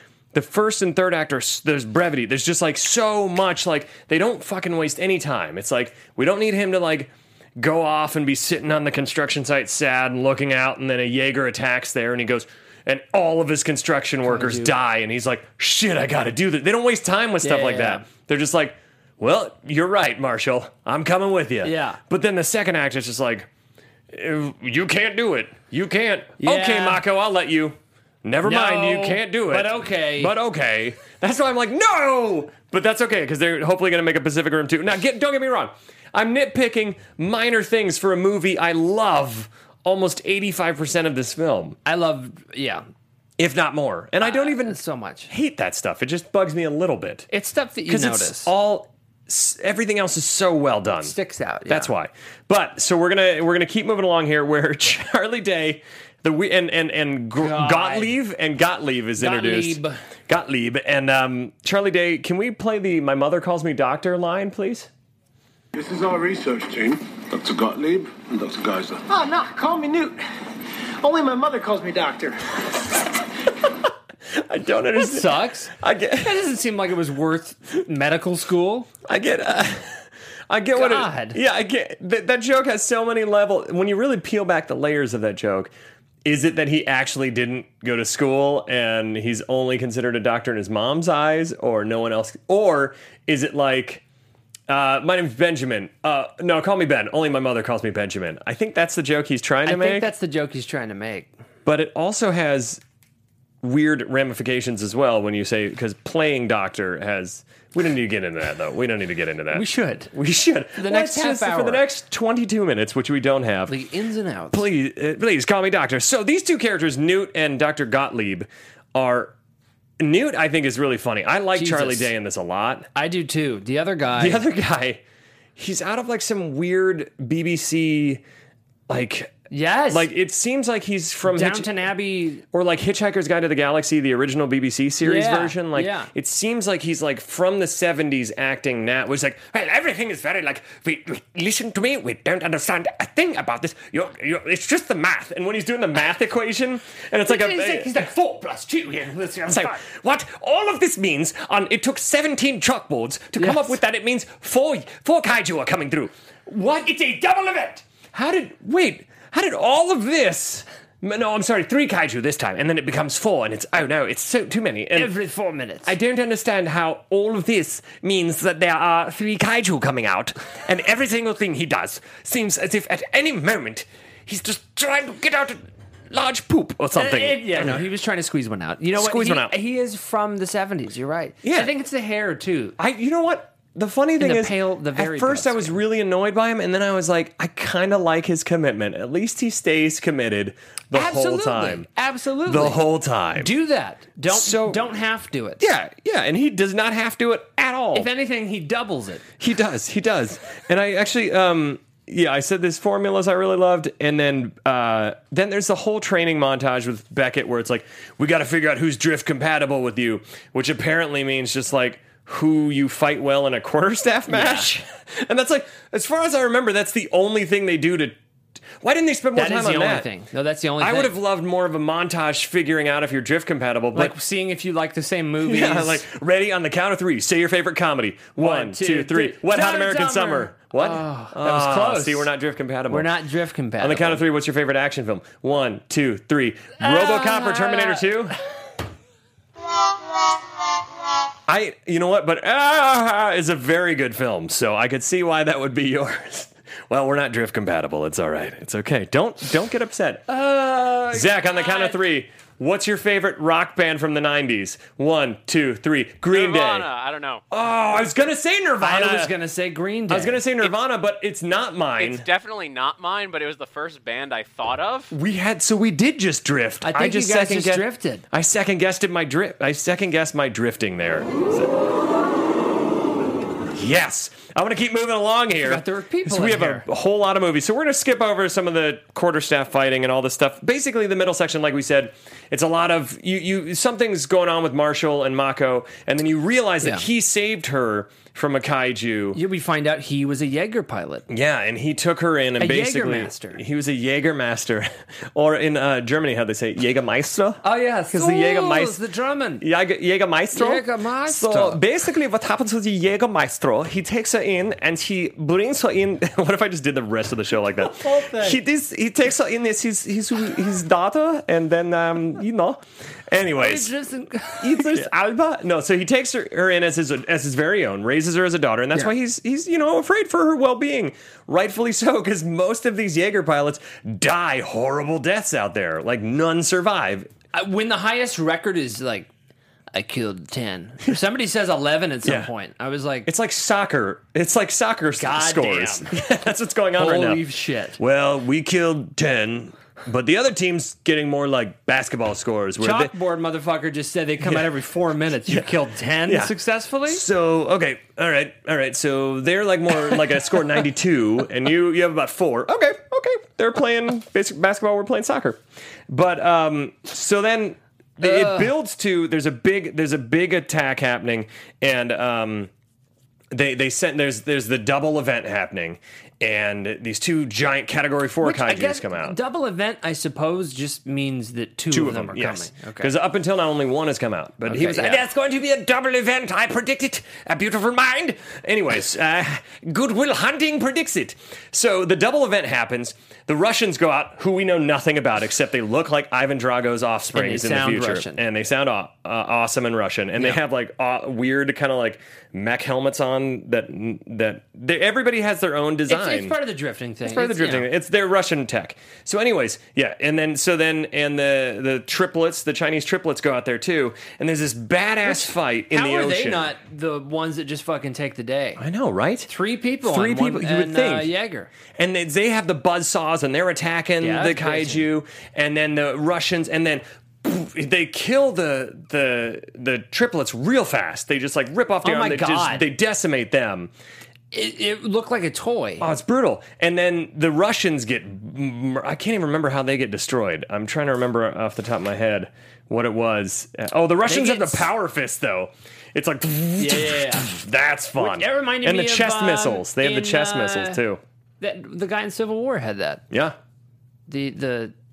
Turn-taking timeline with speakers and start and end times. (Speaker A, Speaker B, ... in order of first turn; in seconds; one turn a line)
Speaker A: 0.3-23.5
Speaker B: 14.2-14.7
Speaker B: 17.4-18.0
Speaker B: 21.6-22.0
Speaker A: 24.1-41.8
Speaker B: 26.4-27.0
Speaker B: 28.4-30.3
Speaker B: 41.9-42.8
Speaker A: 43.4-44.8
Speaker B: 44.2-45.3
Speaker A: 45.3-47.3
Speaker B: 47.3-48.5
Speaker A: 47.9-51.1
Speaker B: 51.0-51.9
Speaker A: 51.7-64.9
Speaker B: 57.4-58.2
Speaker B: 59.2-60.0
Speaker C: 65.7-69.0
Speaker D: 69.1-70.2
Speaker D: 71.0-72.4
Speaker A: 74.3-76.3
Speaker B: 75.0-78.9
Speaker A: 79.1-85.7
Speaker B: 80.7-81.4
Speaker A: 86.2-94.0
Speaker A: 94.7-100.1
Speaker B: 99.6-101.3
Speaker A: 101.6-102.8
Speaker A: 103.6-113.7
Speaker B: 109.5-110.1
Speaker B: 110.8-111.8
Speaker B: 113.7-114.6
Speaker A: 114.5-119.3
Speaker A: 120.0-122.9
Speaker B: 121.5-122.1
Speaker B: 122.9-124.4
Speaker A: 124.2-125.0
Speaker A: 125.6-128.2
Speaker A: 128.9-129.4
Speaker B: 129.5-130.1
Speaker A: 129.9-131.7
Speaker B: 131.2-132.4
Speaker A: 132.5-147.9
Speaker B: 135.0-136.1
Speaker B: 147.2-149.8
Speaker A: 149.4-165.1
Speaker B: 153.4-153.8
Speaker B: 157.2-157.7
Speaker B: 164.9-165.9
Speaker A: 165.8-177.8
Speaker B: 176.9-182.8
Speaker A: 178.9-179.5
Speaker A: 181.4-181.7
Speaker A: 182.8-191.9
Speaker B: 184.2-185.8
Speaker B: 190.9-192.8
Speaker A: 192.4-193.5
Speaker B: 193.3-195.6
Speaker A: 194.3-194.8
Speaker A: 195.6-198.1
Speaker B: 197.9-199.2
Speaker A: 199.4-218.2
Speaker B: 214.3-214.7
Speaker A: 218.8-220.1
Speaker B: 219.3-221.1
Speaker A: 220.8-224.1
Speaker B: 223.9-226.0
Speaker A: 225.4-233.1
Speaker B: 228.4-232.3
Speaker B: 232.9-234.2
Speaker A: 233.8-238.4
Speaker B: 236.8-238.1
Speaker A: 241.5-250.3
Speaker B: 250.3-252.0
Speaker A: 251.1-256.9
Speaker E: 256.3-257.4
Speaker A: 257.5-259.3
Speaker B: 258.8-260.4
Speaker A: 260.1-262.2
Speaker E: 262.0-265.1
Speaker A: 265.1-271.7
Speaker B: 266.8-268.2
Speaker A: 273.7-289.4
Speaker B: 275.6-276.9
Speaker B: 289.3-291.2
Speaker A: 291.3-299.0
Speaker B: 292.6-293.6
Speaker B: 297.6-299.6
Speaker A: 299.6-313.9
Speaker B: 300.5-301.8
Speaker B: 307.8-308.6
Speaker B: 313.6-315.1
Speaker A: 314.6-327.3
Speaker B: 327.5-329.3
Speaker B: 329.9-333.3
Speaker A: 332.2-332.5
Speaker A: 333.2-337.4
Speaker B: 335.2-336.1
Speaker B: 337.0-338.0
Speaker A: 338.0-343.1
Speaker B: 342.8-347.2
Speaker A: 344.4-344.7
Speaker A: 346.2-346.5
Speaker A: 347.1-362.7
Speaker B: 350.1-350.6
Speaker B: 358.2-358.7
Speaker A: 363.5-369.4
Speaker B: 368.4-373.1
Speaker A: 371.9-396.5
Speaker B: 374.6-375.3
Speaker B: 387.3-388.4
Speaker B: 396.1-397.9
Speaker A: 397.2-406.7
Speaker B: 405.2-408.8
Speaker A: 408.8-409.5
Speaker B: 409.5-411.7
Speaker A: 410.0-411.3
Speaker A: 411.9-423.9
Speaker B: 414.2-415.1
Speaker B: 422.0-422.9
Speaker B: 424.5-426.1
Speaker A: 426.0-441.2
Speaker B: 434.2-434.9
Speaker B: 436.8-437.5
Speaker B: 438.1-441.0
Speaker B: 441.6-443.2
Speaker A: 443.3-443.6
Speaker B: 444.3-444.9